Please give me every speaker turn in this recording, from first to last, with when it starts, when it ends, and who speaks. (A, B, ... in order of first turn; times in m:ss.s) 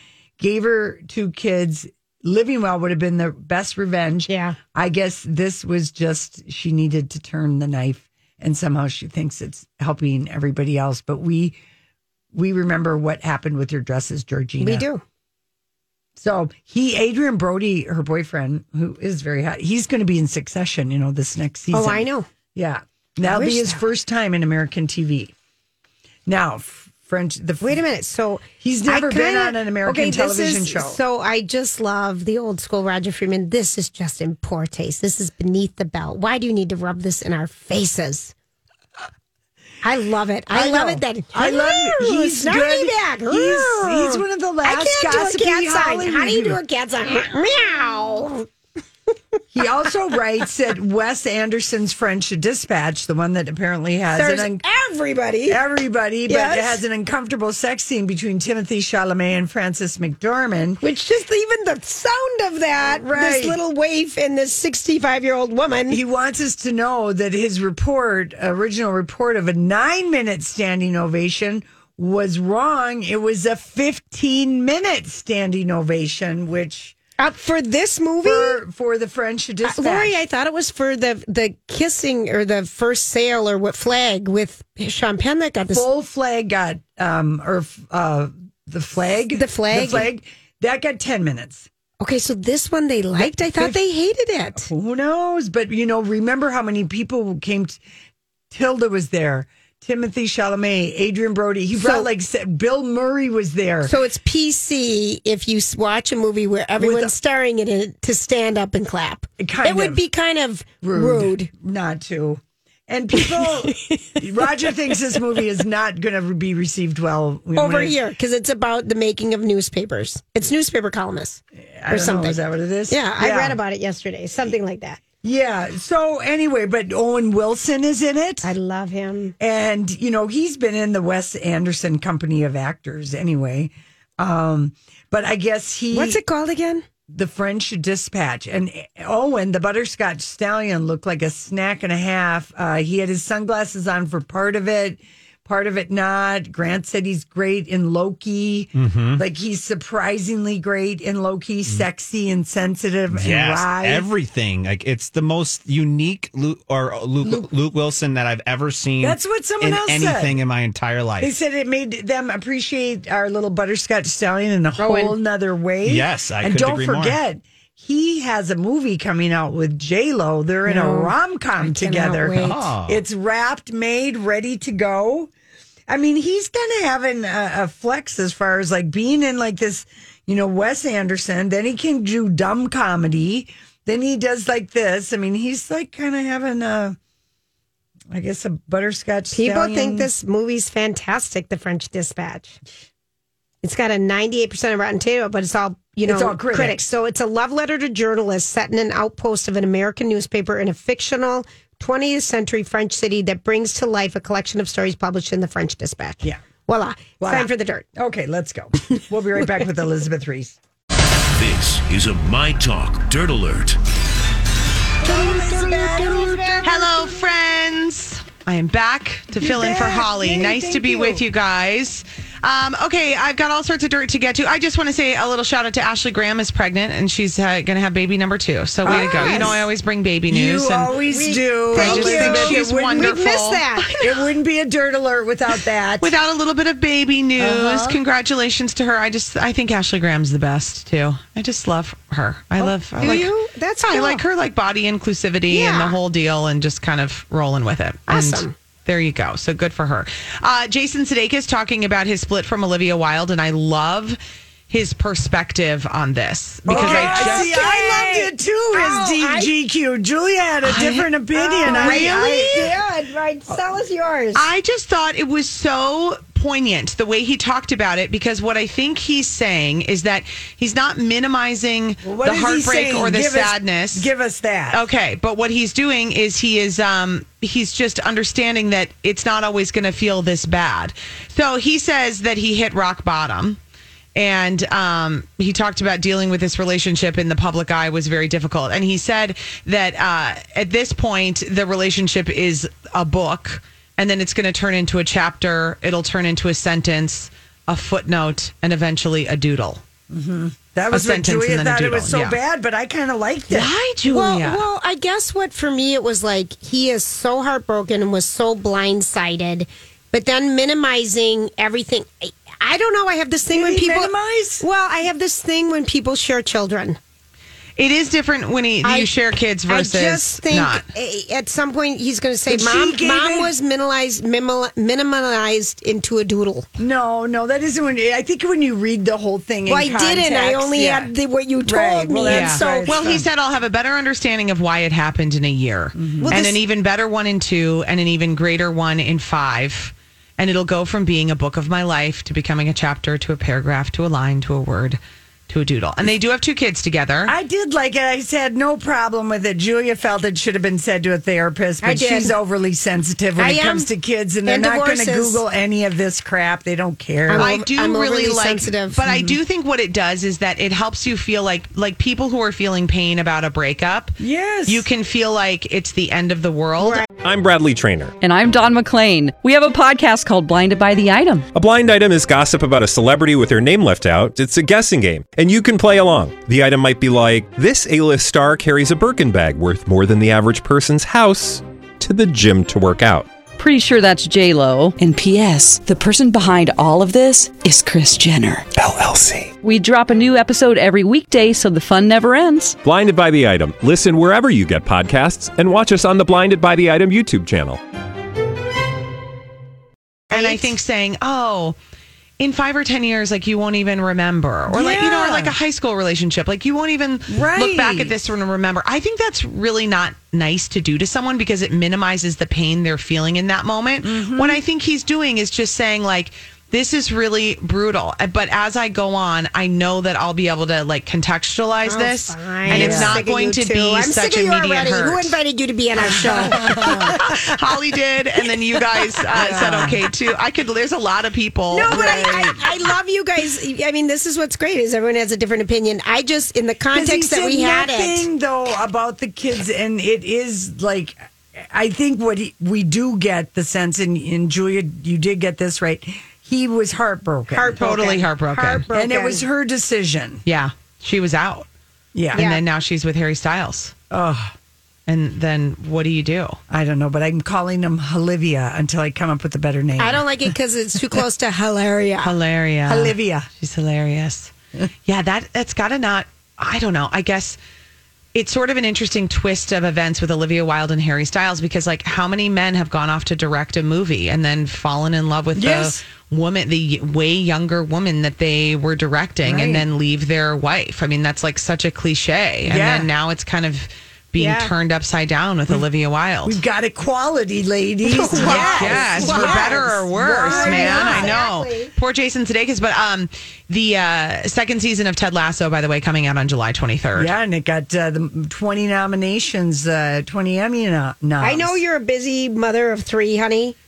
0:00.4-0:11.6 A
0:04.3-0:04.6 B
0:12.3-0:14.8 A
0:14.6-0:15.0 B
0:16.2-0:25.3 A
0:21.7-0:22.3 B
0:23.2-0:23.8 B
0:26.2-0:27.8 A
0:27.6-0:38.3 B
0:28.6-0:31.0 A
0:39.8-0:48.5 B
0:40.5-0:46.6 A
0:49.5-0:54.6 A
0:54.1-0:55.6 B
0:55.5-1:00.8 A
0:56.3-0:56.8 B
1:00.8-1:06.0 B
1:02.9-1:03.6 A
1:05.9-1:17.0 A
1:17.2-1:18.6 B
1:18.2-1:20.2 A
1:19.6-1:25.9 B
1:25.7-1:31.7 A
1:29.3-1:30.1 B
1:32.0-1:34.7 B
1:33.2-1:33.8 A
1:34.6-1:37.8 A
1:38.5-1:43.9 A
1:41.7-1:42.1 B
1:43.9-1:51.5 B
1:46.8-1:47.1 A
1:49.4-1:50.0 A
1:50.8-1:58.0 A
1:53.2-1:54.2 B
1:57.6-2:05.0 B
2:01.8-2:03.6 A
2:05.2-2:08.5 A
2:08.4-2:09.4 B
2:09.4-2:16.2 A
2:15.9-2:16.8 B
2:17.1-2:34.1 A
2:28.8-2:29.2 C
2:33.1-2:41.3 C
2:37.2-2:37.5 A
2:39.0-2:40.4 A
2:41.2-2:55.3 A
2:44.8-2:45.2 B
2:45.8-2:47.2 C
2:50.7-2:52.7 B
2:52.3-2:53.0 C
2:55.9-3:07.0 A
3:08.1-3:10.1 A
3:09.3-3:12.6 B
3:13.6-3:27.9 B
3:16.0-3:16.8 A
3:27.2-3:30.6 A
3:31.4-3:33.8 D
3:35.0-3:36.8 B
3:35.0-3:37.2 A
3:36.6-3:51.0 E
3:39.4-3:41.2 A
3:48.8-3:49.6 A
3:48.9-3:49.6 B
3:50.3-3:53.3 A
3:51.1-3:54.0 B
3:51.7-3:54.2 E
3:54.0-3:56.1 A
3:56.0-4:03.3 E
3:57.4-3:58.0 A
4:03.0-4:04.2 B
4:03.8-4:14.2 E
4:05.5-4:06.0 B
4:08.1-4:08.5 B
4:14.7-4:17.6 E
4:16.7-4:22.8 A
4:16.7-4:19.5 B
4:20.6-4:21.1 E
4:21.3-4:24.5 B
4:21.6-4:22.4 E
4:24.4-4:34.1 E
4:32.0-4:34.9 A
4:34.7-4:43.6 E
4:44.2-4:59.8 E
5:00.1-5:03.7 A
5:00.9-5:02.4 E
5:03.5-5:04.6 E
5:04.1-5:17.0 B
5:13.5-5:14.6 A
5:17.8-5:20.8 E
5:18.8-5:19.1 B
5:19.7-5:26.7 B
5:22.5-5:23.5 A
5:26.8-5:31.1 A
5:29.7-5:33.2 B
5:31.6-5:33.3 A
5:32.2-5:47.3 E
5:36.0-5:36.4 A
5:36.2-5:36.6 B
5:47.2-5:57.5 A
5:51.8-5:52.4 B
5:53.4-5:53.9 B
5:54.5-5:55.4 B
5:57.3-5:59.0 B
5:57.4-6:07.0 E
5:59.0-5:59.4 A
6:04.2-6:04.9 A
6:07.2-6:08.2 F
6:08.2-6:11.5 G
6:11.5-6:23.3 F
6:23.6-6:28.7 G
6:28.8-6:29.5 F
6:29.6-6:32.8 G
6:32.8-6:37.8 F
6:40.3-6:41.8 E
6:42.4-7:05.4 E
6:44.7-6:45.6 A
6:47.3-6:48.2 A
6:54.0-6:54.6 A
7:01.9-7:07.2 B
7:02.7-7:03.2 A
7:06.0-7:07.4 A
7:06.5-7:12.6 E
7:09.3-7:10.0 A
7:11.7-7:18.3 B
7:11.8-7:12.7 A
7:16.9-7:27.8 A
7:27.5-7:29.4 B
7:27.8-7:28.9 E
7:28.9-7:30.4 A
7:30.5-7:31.7 E
7:32.2-7:32.5 A
7:32.3-7:34.0 E
7:32.3-7:32.6 B
7:34.1-7:34.5 A
7:35.1-7:36.6 E
7:36.7-7:40.2 A
7:40.0-7:42.3 B
7:42.2-7:44.5 E
7:42.9-7:43.5 A
7:45.1-7:47.6 E
7:48.3-8:06.6 E
7:55.6-7:56.0 A
7:59.4-7:59.8 A
8:02.7-8:03.1 A
8:04.4-8:04.7 B
8:06.4-8:11.4 A
8:08.0-8:11.9 B
8:08.4-8:17.3 E
8:17.2-8:21.8 A
8:21.4-8:23.8 B